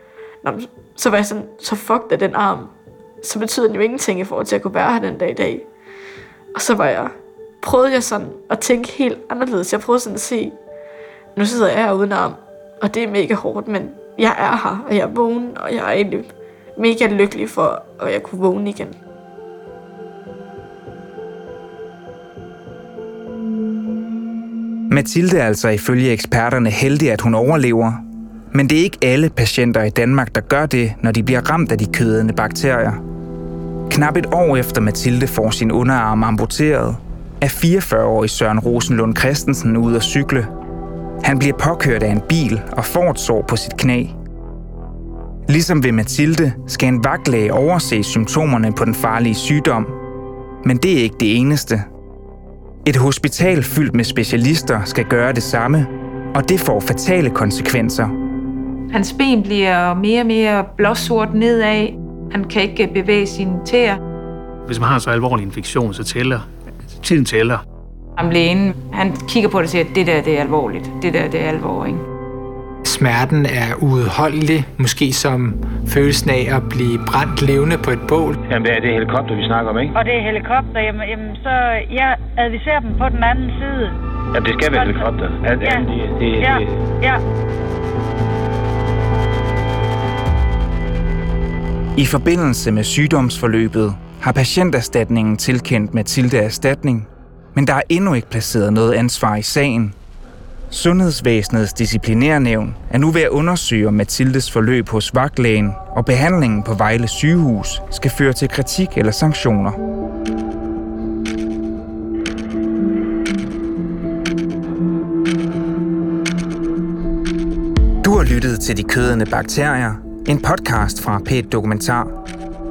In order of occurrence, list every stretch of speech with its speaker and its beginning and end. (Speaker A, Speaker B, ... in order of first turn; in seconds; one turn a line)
Speaker A: 0.4-5.7
Speaker A: 6.5-10.5
Speaker A: 11.3-18.9
Speaker B: 24.9-33.0
Speaker B: 33.9-40.5
Speaker B: 41.2-44.2
Speaker B: 45.5-50.0
Speaker B: 50.6-51.9
Speaker B: 52.8-58.1
Speaker C: 58.9-64.0
Speaker D: 64.7-67.6
Speaker C: 68.2-72.0
Speaker E: 72.8-78.3
Speaker F: 78.5-80.0
Speaker G: 80.0-84.0
Speaker F: 84.3-86.7
Speaker G: 84.7-85.1
Speaker G: 85.6-85.9
Speaker G: 86.4-87.2
Speaker B: 92.0-100.0
Speaker B: 100.7-109.8
Speaker B: 118.0-122.1